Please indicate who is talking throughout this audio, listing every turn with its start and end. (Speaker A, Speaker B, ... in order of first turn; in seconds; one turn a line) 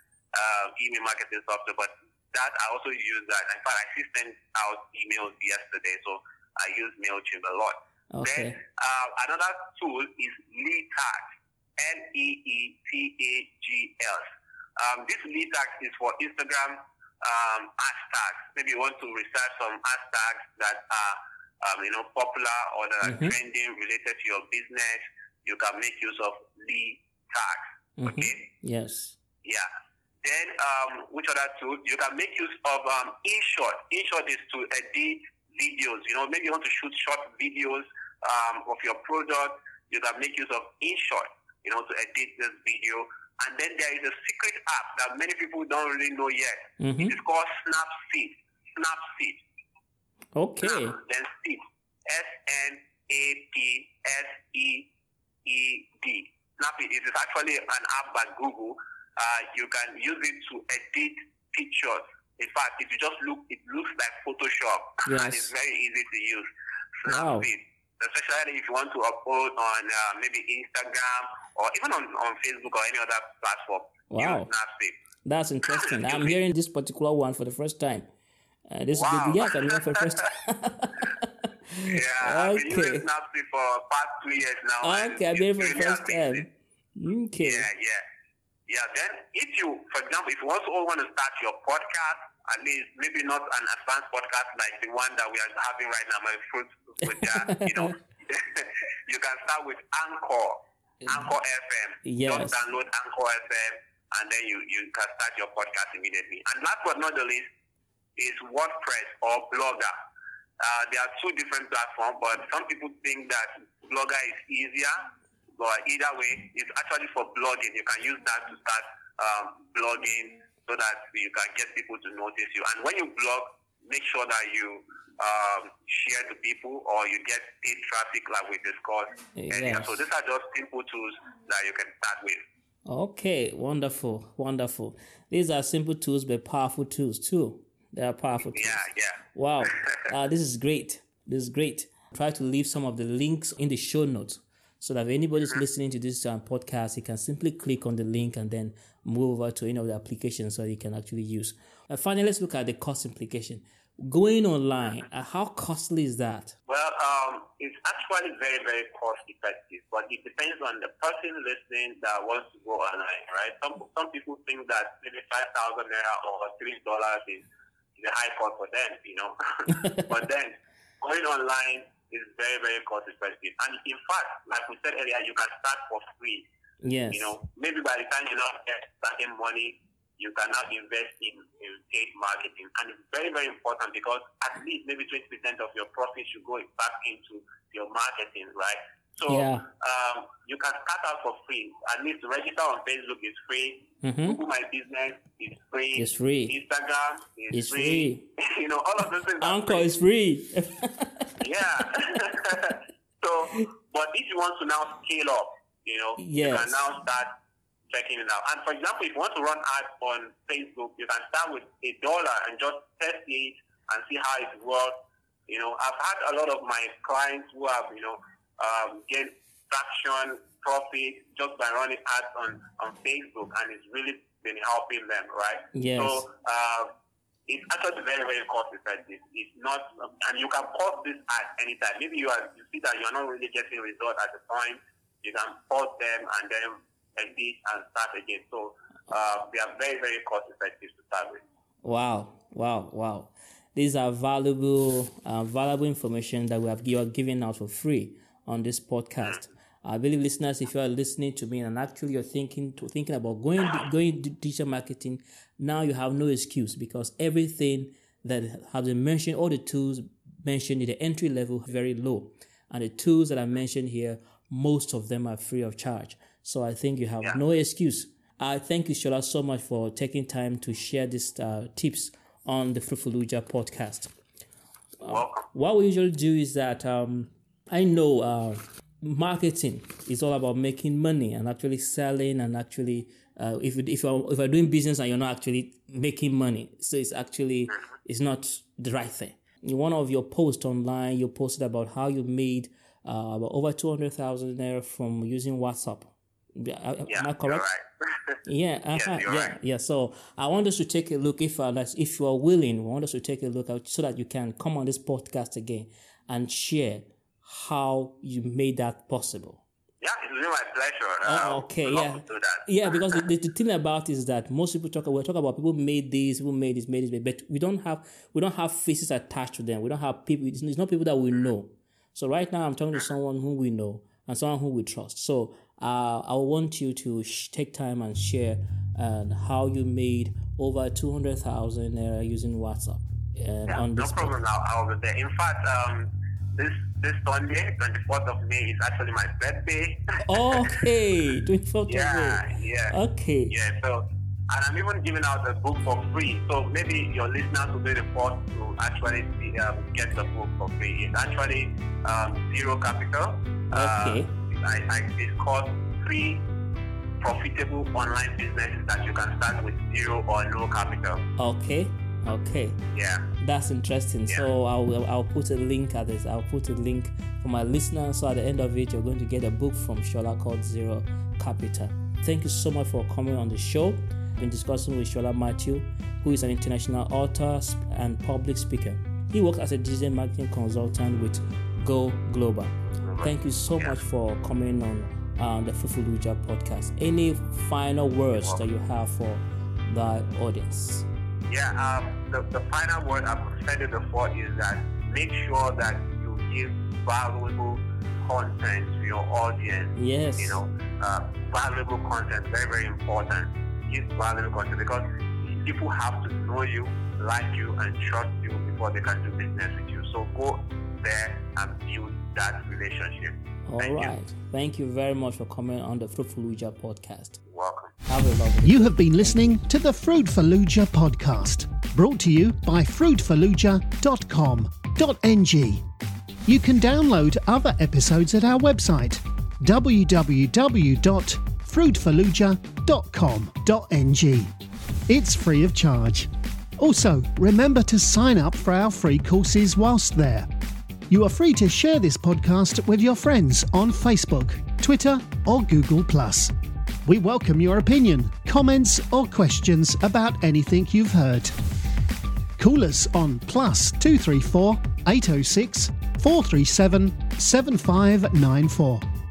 Speaker A: 0.3-28.5
Speaker B: 8.1-8.6
Speaker B: 23.0-23.4
Speaker B: 28.0-29.2
Speaker A: 30.2-49.4
Speaker B: 46.8-47.1
Speaker B: 50.4-51.0
Speaker A: 50.6-54.9
Speaker A: 55.5-66.5
Speaker B: 65.1-65.5
Speaker A: 67.0-75.0
Speaker B: 67.1-67.5
Speaker B: 74.1-74.5
Speaker B: 75.2-78.1
Speaker A: 75.6-76.4
Speaker B: 78.7-83.0
Speaker A: 78.9-80.3
Speaker A: 81.9-86.5
Speaker B: 84.8-87.7
Speaker A: 87.4-88.0
Speaker A: 88.7-107.5
Speaker B: 97.2-97.9
Speaker B: 102.0-102.6
Speaker A: 108.2-109.9
Speaker A: 110.6-115.0
Speaker A: 115.6-132.4
Speaker B: 129.4-130.0
Speaker B: 132.9-138.8
Speaker A: 138.4-140.1
Speaker B: 139.3-156.6
Speaker A: 156.7-167.4
Speaker A: 168.0-176.4
Speaker B: 176.8-177.3
Speaker A: 177.1-199.9
Speaker B: 189.3-189.7
Speaker B: 194.0-194.4
Speaker B: 196.0-196.6
Speaker B: 197.5-198.3
Speaker B: 199.4-201.4
Speaker A: 201.4-207.4
Speaker B: 206.2-206.8
Speaker A: 207.9-214.9
Speaker A: 215.5-226.9
Speaker B: 225.8-226.2
Speaker A: 227.5-241.4
Speaker B: 241.8-274.1
Speaker B: 275.0-297.6
Speaker A: 275.0-275.5
Speaker A: 297.1-298.4
Speaker B: 298.4-309.6
Speaker A: 298.9-299.6
Speaker A: 310.0-313.2
Speaker B: 311.2-334.4
Speaker A: 333.7-340.8
Speaker B: 340.2-343.5
Speaker A: 341.9-343.0
Speaker A: 343.5-356.4
Speaker B: 353.7-354.3
Speaker A: 357.2-361.2
Speaker B: 361.4-362.8
Speaker A: 362.9-363.3
Speaker B: 363.4-391.1
Speaker A: 382.9-384.0
Speaker A: 391.5-414.1
Speaker B: 399.9-400.6
Speaker B: 413.6-417.4
Speaker A: 417.5-417.9
Speaker B: 418.1-419.6
Speaker C: 418.6-425.8
Speaker C: 426.4-434.5
Speaker C: 435.1-440.5
Speaker C: 441.1-446.5
Speaker C: 447.1-451.5
Speaker C: 452.6-459.1